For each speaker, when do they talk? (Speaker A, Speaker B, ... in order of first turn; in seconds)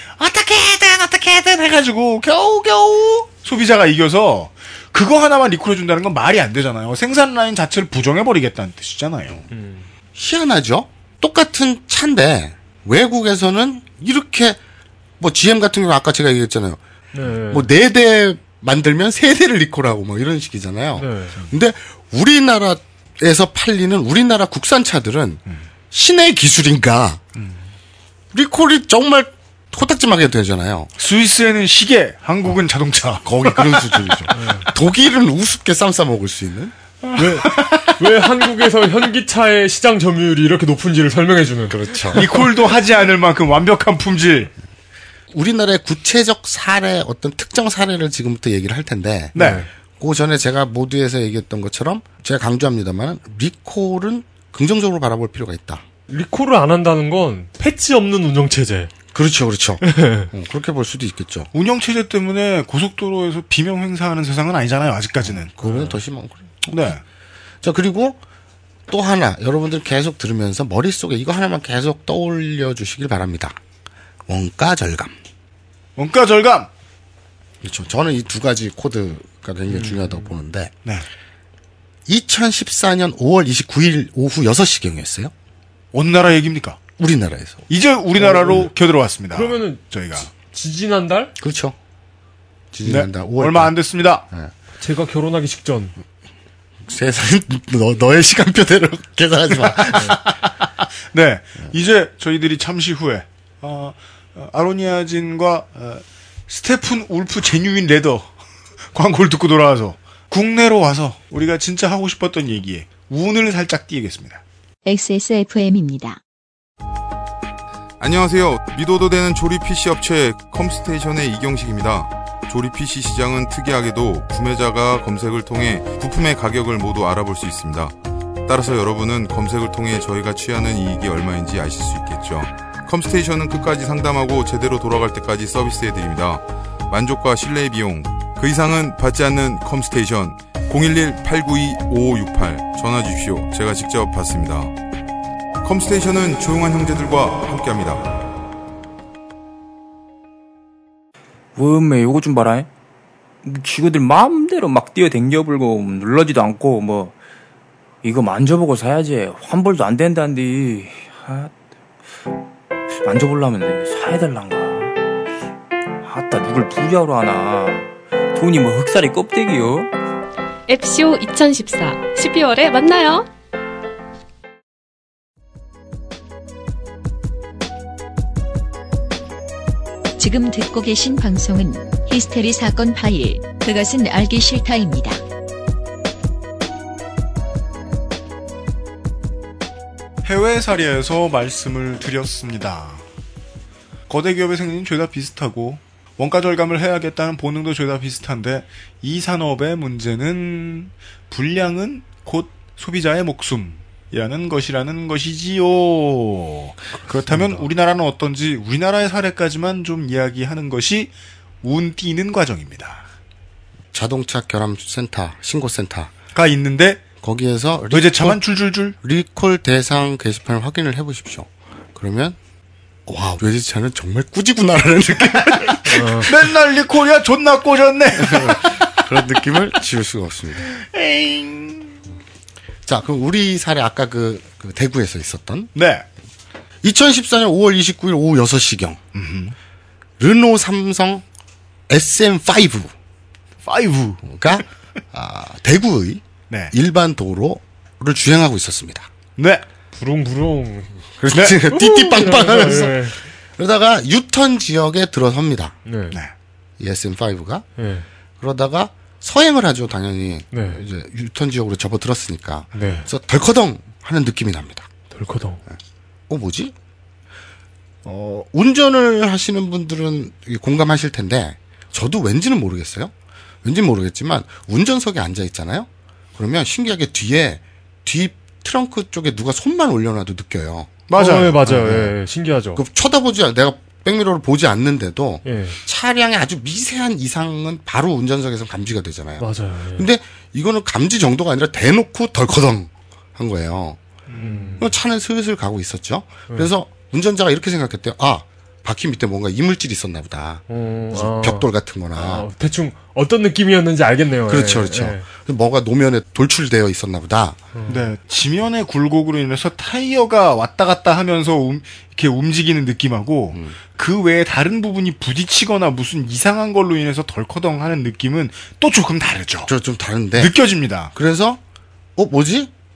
Speaker A: 0.2-9.4, 27.4-27.6, 31.0-34.4, 37.0-37.9, 42.1-44.5, 49.4-49.7, 61.5-65.5, 66.7-67.0, 76.0-76.7, 85.9-86.8, 87.7-90.3, 92.8-94.2, 99.7-100.6, 101.1-108.3, 108.9-114.4, 190.2-193.0, 194.1-211.1, 211.6-213.1, 216.3-217.0, 217.9-219.0, 225.8-228.9, 230.8-232.0, 235.8-236.1, 239.1-239.6, 243.7-244.6, 249.4-249.6, 251.3-251.6, 252.4-252.9, 281.1-281.6, 294.4-294.8, 307.9-319.7, 320.4-321.1
Speaker B: 9.5-9.9, 17.1-17.7, 21.0-21.4, 34.3-34.7, 37.2-42.4, 49.4-49.7, 56.1-58.9, 59.8-60.3, 65.6-65.9, 79.8-80.2, 88.2-88.7, 89.3-89.8, 90.5-91.3, 94.8-96.0, 99.9-100.2, 225.9-226.3, 249.9-251.0, 251.7-253.2, 255.9-256.2, 257.8-258.1, 260.5-260.8, 262.8-263.1, 265.1-265.6, 281.1-282.8, 285.4-285.8, 289.4-290.1, 294.3-294.9, 300.7-305.3, 307.7-308.1
Speaker C: 10.2-14.6, 15.2-16.8, 17.5-27.2, 28.3-30.9, 33.2-36.8, 41.7-42.3, 45.3-49.4, 50.0-55.8, 59.1-61.5, 65.6-67.0, 67.6-68.2, 68.9-73.6, 74.3-75.1, 77.6-80.7, 82.1-85.3, 87.0-87.6, 91.4-91.8, 92.7-93.8, 96.8-100.2, 213.9-216.1, 217.2-218.4, 219.0-222.4, 223.1-226.3, 228.2-230.7, 232.9-235.7, 236.8-239.0, 240.2-241.2, 241.9-242.9, 244.3-249.1, 251.2-255.8, 256.8-257.7, 258.4-264.9, 266.3-266.7, 268.0-273.1, 273.6-281.0, 281.6-282.1, 282.8-294.0, 294.8-302.5, 304.5-307.6, 319.6-320.6, 321.1-321.6, 322.2-322.7
Speaker D: 114.8-116.2, 180.2-185.2
Speaker E: 118.0-144.8, 145.6-148.4
Speaker F: 151.6-152.7, 153.4-157.2, 158.0-161.5, 163.0-164.9, 166.0-169.9
Speaker G: 170.7-173.3